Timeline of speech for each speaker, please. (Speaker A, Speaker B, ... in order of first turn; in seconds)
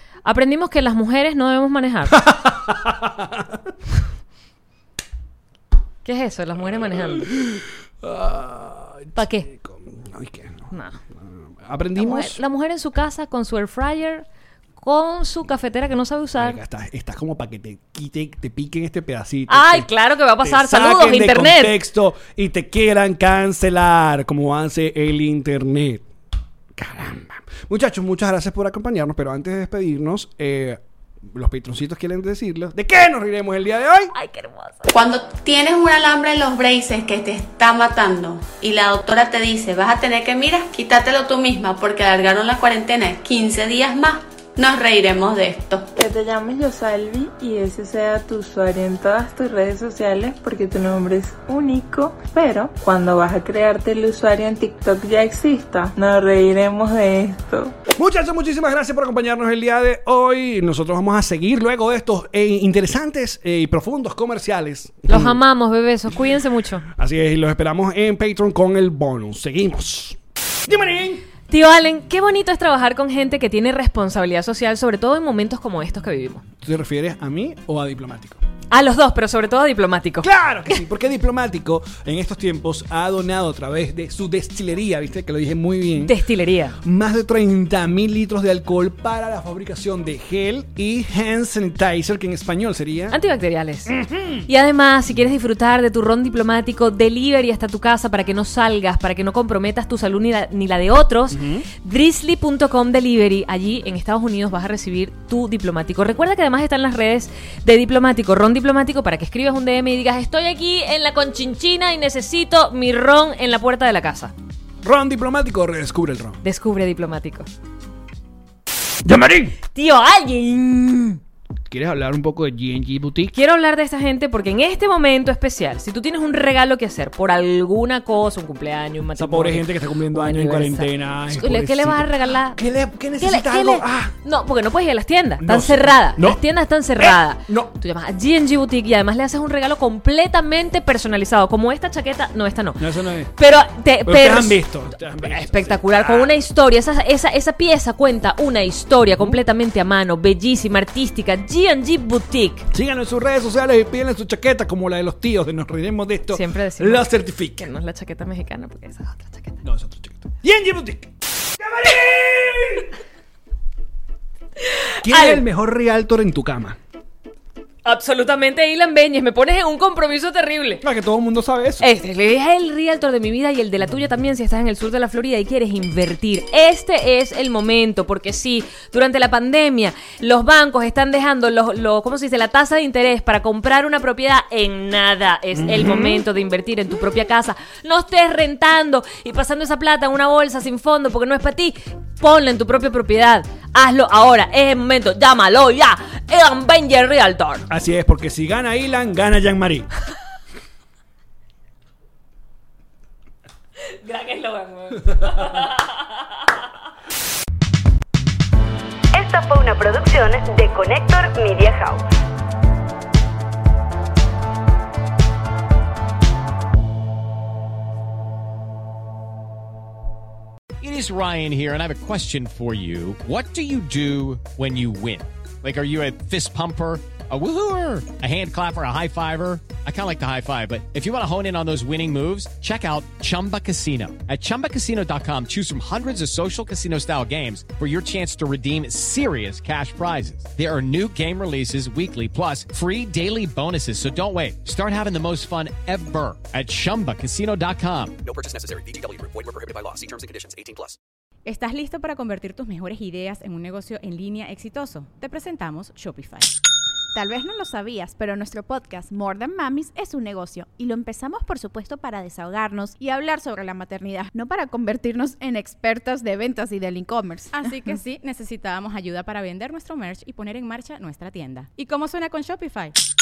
Speaker A: 0.2-2.3, 6.0-7.3, 9.2-9.5, 10.7-11.0, 11.9-14.2, 14.8-16.6, 19.5-21.8, 34.1-34.9, 65.1-66.9, 71.5-76.4, 78.7-80.3, 86.0-86.8, 93.1-114.3, 116.4-117.5, 119.7-121.2, 123.3-132.6, 133.2-152.7, 156.3-159.6, 164.7-165.4, 167.8-170.8, 171.8-197.7, 203.8-206.1
Speaker B: 2.1-3.7, 6.7-12.4, 16.3-19.9, 20.4-26.1, 26.7-34.1, 57.9-65.4, 67.0-71.3, 76.6-78.4, 80.2-86.2, 86.8-93.2, 93.9-94.5, 101.3-101.7, 114.8-116.4, 119.0-119.6, 121.7-123.3, 129.2-134.1, 135.4-136.4, 136.9-137.7, 142.8-143.3, 144.0-146.3, 152.7-157.7, 159.6-162.9, 165.0-166.8, 170.8-171.9, 185.5-186.2, 197.7-199.9
Speaker C: 34.9-45.9
Speaker D: 46.0-57.7
Speaker E: 209.1-212.1
Speaker F: 220.8-248.2
Speaker G: 248.2-251.0
Speaker H: 251.4-256.5, 267.5-272.9
Speaker I: 257.1-267.6